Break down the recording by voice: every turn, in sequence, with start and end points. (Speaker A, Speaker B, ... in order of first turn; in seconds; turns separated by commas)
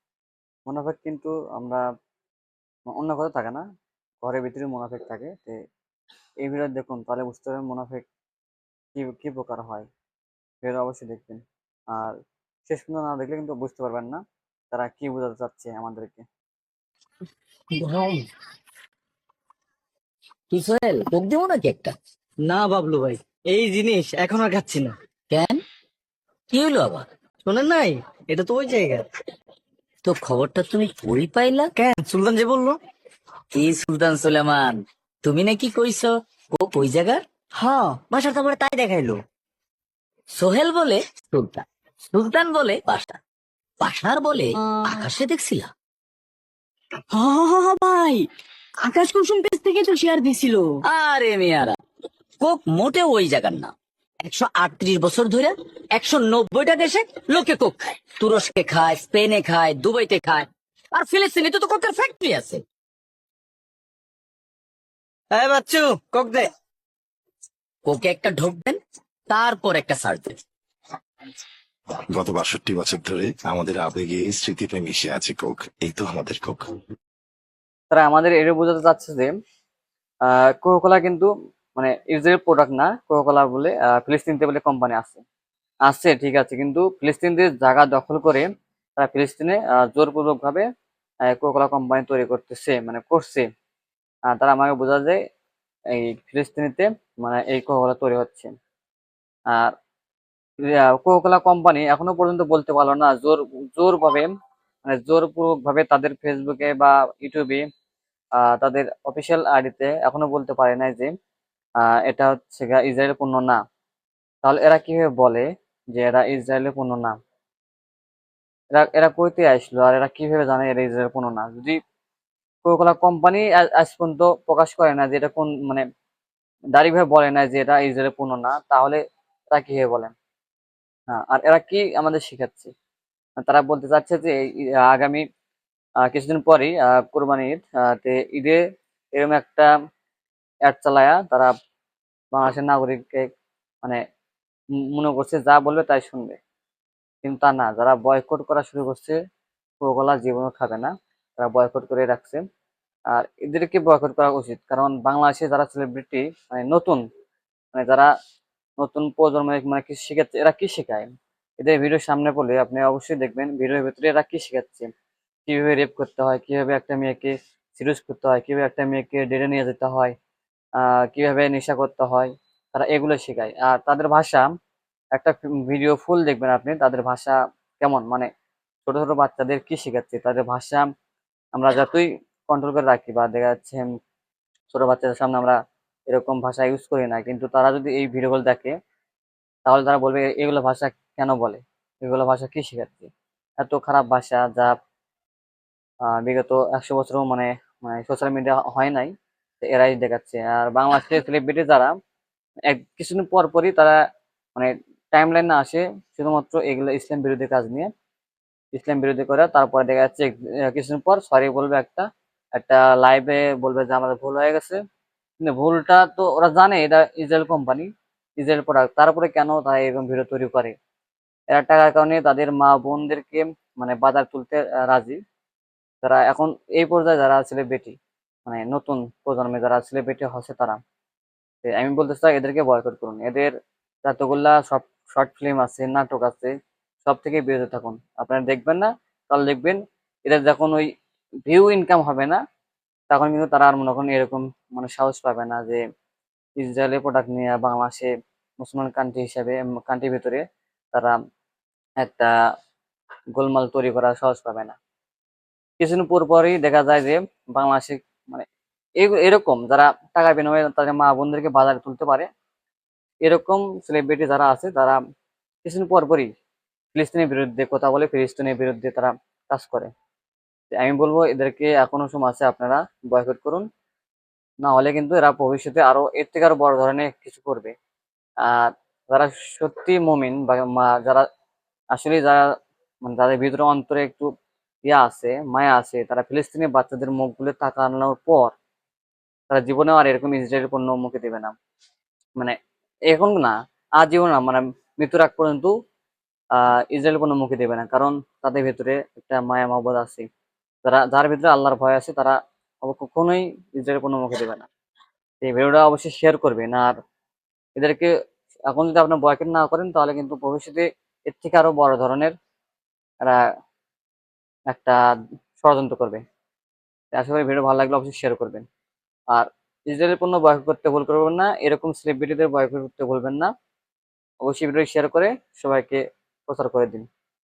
Speaker A: 0.7-1.8, Speaker A: 2.9-3.6, Speaker A: 4.2-5.6, Speaker A: 6.4-8.1, Speaker A: 8.9-9.9, Speaker A: 10.6-11.4, Speaker A: 12.7-14.2, Speaker A: 14.7-16.2, Speaker B: 17.9-18.1, Speaker C: 20.5-21.9, Speaker B: 22.4-24.9, Speaker C: 25.3-25.6, Speaker C: 26.5-27.1, Speaker B: 27.4-29.0, Speaker C: 30.0-31.7, Speaker B: 31.8-32.8, Speaker C: 33.5-37.2, Speaker B: 37.6-39.2, Speaker C: 40.3-43.2, Speaker C: 43.8-45.7, Speaker B: 44.6-45.0, Speaker B: 47.1-48.2, Speaker B: 48.8-50.8, Speaker C: 50.8-51.8, Speaker C: 52.4-62.6, Speaker B: 65.3-66.5, Speaker C: 67.8-70.4, Speaker D: 72.0-76.8, Speaker A: 77.9-79.3, Speaker A: 80.3-85.2, Speaker A: 85.9-90.7, Speaker A: 91.3-93.5, Speaker A: 94.3-95.2, Speaker A: 95.9-98.5, Speaker A: 100.8-104.3, Speaker A: 104.8-107.6, Speaker A: 108.4-111.1, Speaker A: 111.8-113.6, Speaker A: 114.4-117.2, Speaker A: 118.7-121.8, Speaker A: 122.6-125.8, Speaker A: 126.7-129.0, Speaker A: 129.5-130.1, Speaker A: 131.1-132.7, Speaker A: 133.4-135.2, Speaker A: 136.1-138.6, Speaker A: 139.1-139.7, Speaker A: 140.7-141.5, Speaker A: 142.3-143.3, Speaker A: 144.9-146.4, Speaker A: 147.2-149.2, Speaker A: 149.8-152.4, Speaker A: 153.1-157.0, Speaker A: 157.7-158.1, Speaker A: 158.8-161.1, Speaker A: 161.6-164.9, Speaker A: 165.5-170.1, Speaker A: 170.8-174.4, Speaker A: 175.2-178.3, Speaker A: 178.8-180.8, Speaker A: 181.6-183.9, Speaker A: 184.7-185.6, Speaker A: 186.1-188.7, Speaker A: 189.7-194.7, Speaker A: 196.2-201.9, Speaker A: 202.7-204.0, Speaker A: 204.5-207.9, Speaker A: 208.7-214.8, Speaker A: 215.4-217.9, Speaker A: 218.4-220.7, Speaker A: 221.5-225.2, Speaker A: 226.0-227.9, Speaker A: 228.4-230.8, Speaker A: 231.6-233.5, Speaker A: 234.0-236.5, Speaker A: 237.0-240.9, Speaker A: 241.5-242.4, Speaker A: 243.1-245.8, Speaker A: 246.6-250.4, Speaker A: 252.0-252.3, Speaker A: 253.3-254.8, Speaker A: 255.8-258.4, Speaker A: 259.0-262.3, Speaker A: 263.2-265.0, Speaker A: 265.6-266.3, Speaker A: 266.9-269.9, Speaker A: 270.7-273.6, Speaker A: 274.6-277.7, Speaker A: 278.4-281.2, Speaker A: 281.9-282.4, Speaker A: 283.0-284.3, Speaker A: 284.9-288.5, Speaker A: 289.5-291.5, Speaker A: 293.1-295.7, Speaker A: 296.6-300.2, Speaker A: 300.8-304.7, Speaker A: 305.4-306.9, Speaker A: 307.8-308.1, Speaker A: 308.7-312.3, Speaker A: 314.7-315.0, Speaker A: 315.6-316.2, Speaker A: 317.1-318.6, Speaker A: 319.3-323.5, Speaker A: 324.4-327.1